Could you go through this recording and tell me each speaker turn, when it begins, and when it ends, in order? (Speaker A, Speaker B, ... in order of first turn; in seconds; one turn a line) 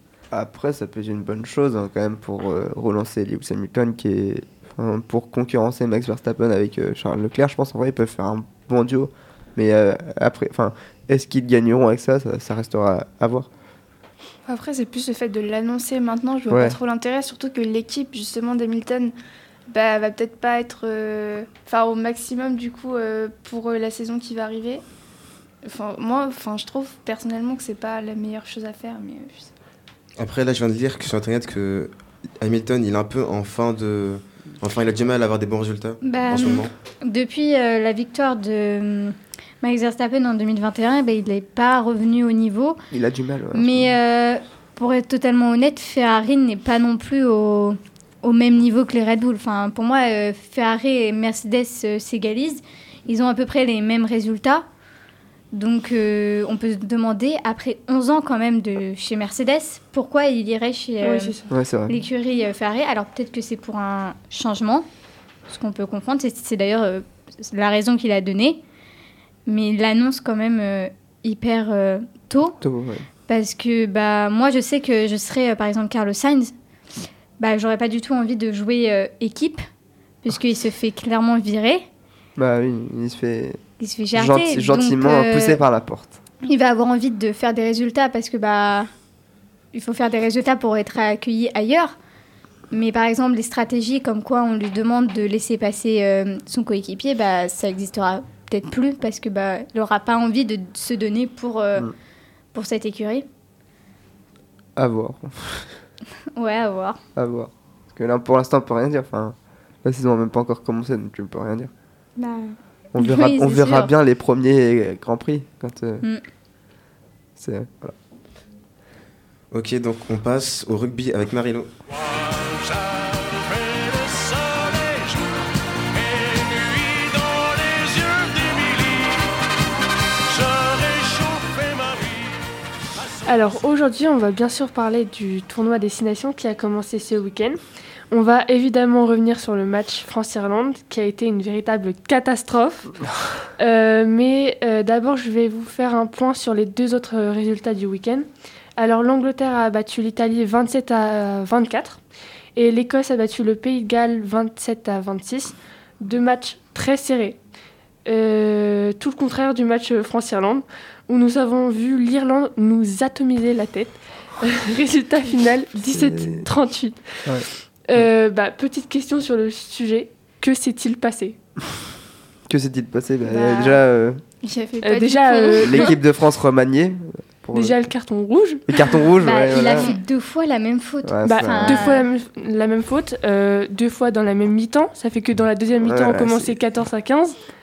Speaker A: 0.3-13.5
Speaker B: 14.5-19.1
Speaker A: 16.5-16.8
Speaker B: 19.7-24.8
Speaker B: 25.6-29.5
Speaker C: 30.2-36.7
Speaker D: 36.0-42.8
Speaker A: 42.9-43.9
Speaker D: 43.5-54.7
Speaker D: 55.5-61.4
Speaker E: 61.0-61.5
Speaker A: 61.5-62.0
Speaker D: 61.9-64.9
Speaker D: 65.5-68.6
Speaker D: 69.5-72.6
Speaker A: 72.6-73.0
Speaker D: 73.3-76.5
Speaker D: 77.4-79.6
Speaker D: 80.2-81.9
Speaker A: 82.4-83.6
Speaker D: 83.8-85.6
Speaker A: 84.1-86.2
Speaker D: 86.4-88.9
Speaker D: 89.7-92.0
Speaker D: 92.7-101.9
Speaker D: 102.5-103.3
Speaker A: 104.8-105.7
Speaker D: 106.4-107.0
Speaker A: 107.2-111.7
Speaker D: 112.2-113.9
Speaker A: 112.9-116.0
Speaker A: 117.4-118.0
Speaker C: 119.5-121.7
Speaker E: 133.2-137.6
Speaker E: 138.1-143.0
Speaker E: 143.6-148.3
Speaker E: 148.8-152.0
Speaker E: 152.6-157.4
Speaker E: 158.1-171.4
Speaker A: 165.9-166.5
Speaker A: 172.5-174.2
Speaker B: 173.3-173.8
Speaker B: 174.4-175.9
Speaker E: 174.8-176.0
Speaker A: 175.6-177.8
Speaker E: 177.5-178.9
Speaker A: 178.7-179.9
Speaker D: 179.2-182.0
Speaker A: 181.0-181.9
Speaker E: 181.2-187.4
Speaker A: 185.8-186.6